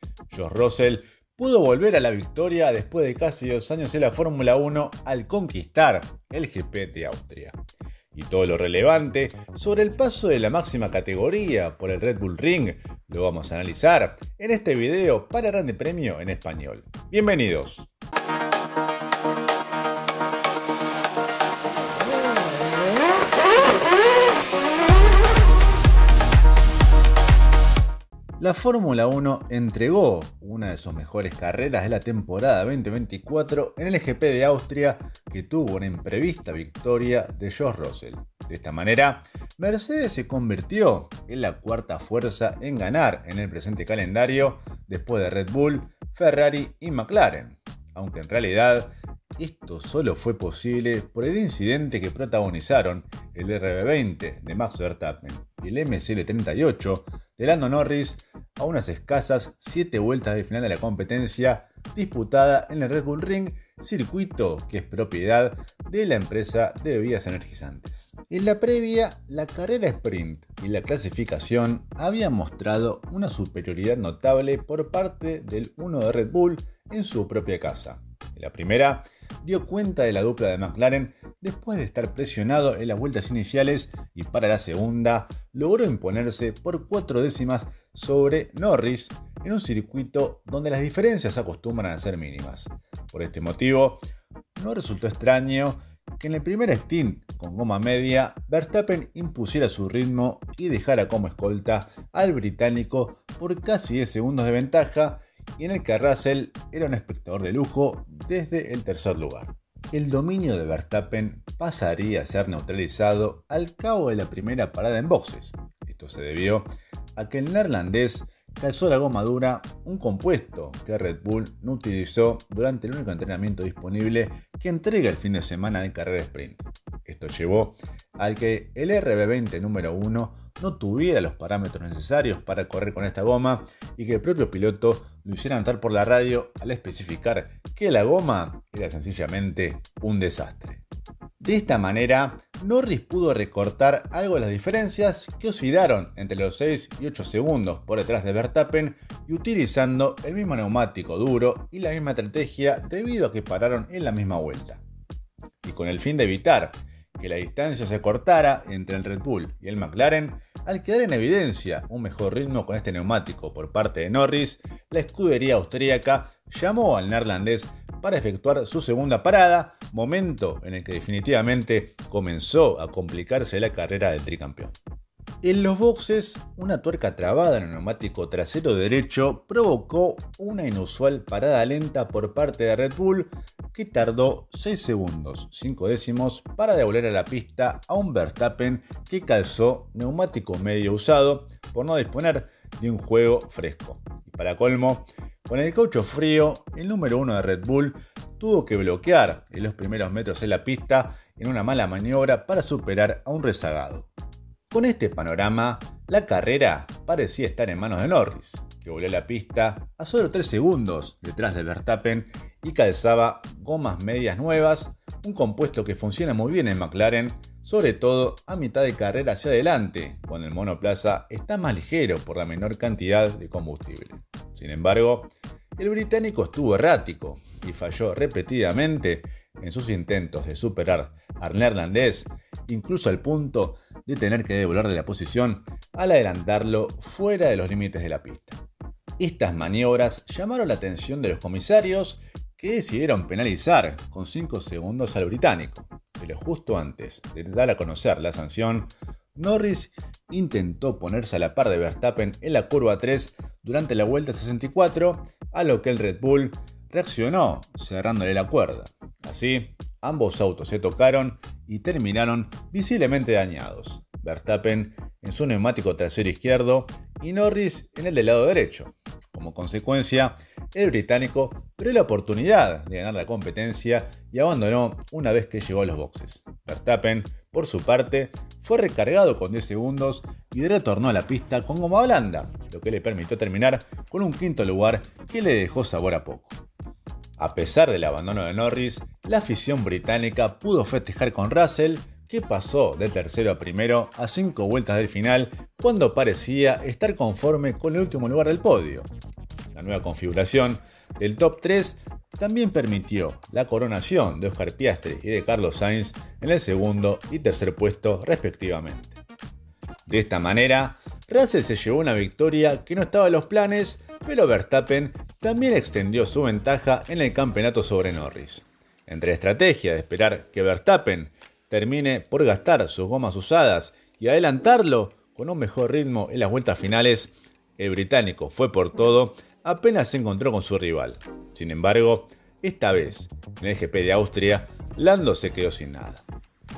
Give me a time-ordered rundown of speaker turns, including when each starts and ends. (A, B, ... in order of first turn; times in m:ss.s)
0:00.3-0:07.6 A
0:08.1-0:17.9 A
0:28.4-1:34.0 A
1:34.6-2:20.8 A
2:21.4-2:34.8 A
2:35.6-2:54.8 A
2:55.4-3:24.1 A
3:24.7-3:58.6 A
3:59.2-4:46.6 A
4:47.4-4:59.1 A
4:59.7-5:09.2 A
5:10.1-5:36.2 A